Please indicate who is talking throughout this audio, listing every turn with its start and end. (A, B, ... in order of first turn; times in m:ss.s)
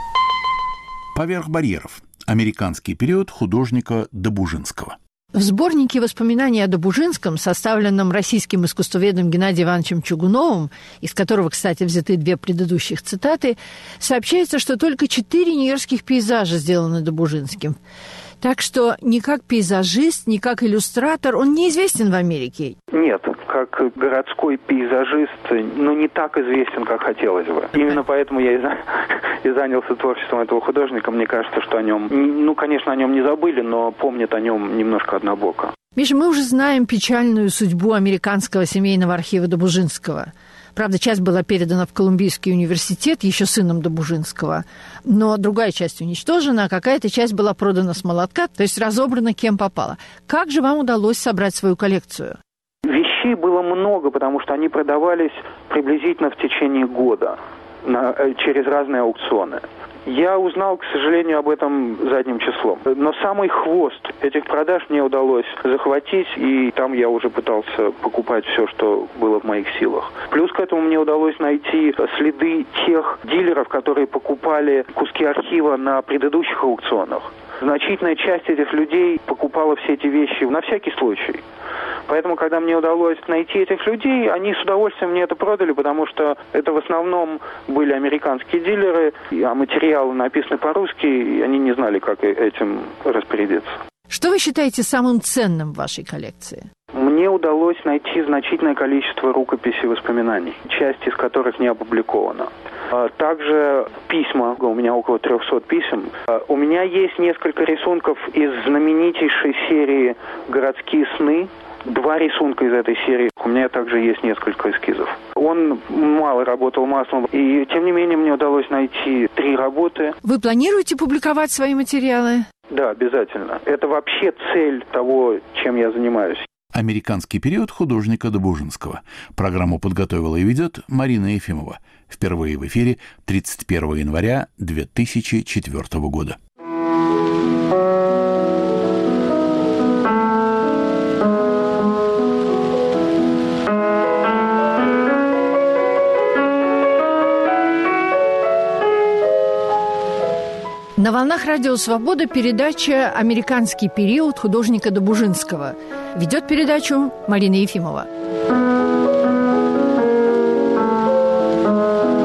0:01.2-0:05.0 A
0:05.3-0:17.8 B
0:18.4-0:22.8 B
0:22.9-0:28.8 C
0:29.4-0:35.7 C
0:36.0-0:52.4 B
0:52.9-1:21.4 C
1:22.1-1:33.8 C
1:34.1-1:36.7 B
1:36.9-2:00.2 C
2:00.2-2:02.5 B
2:02.7-2:06.5 C
2:06.7-2:16.4 A
2:31.0-2:38.1 B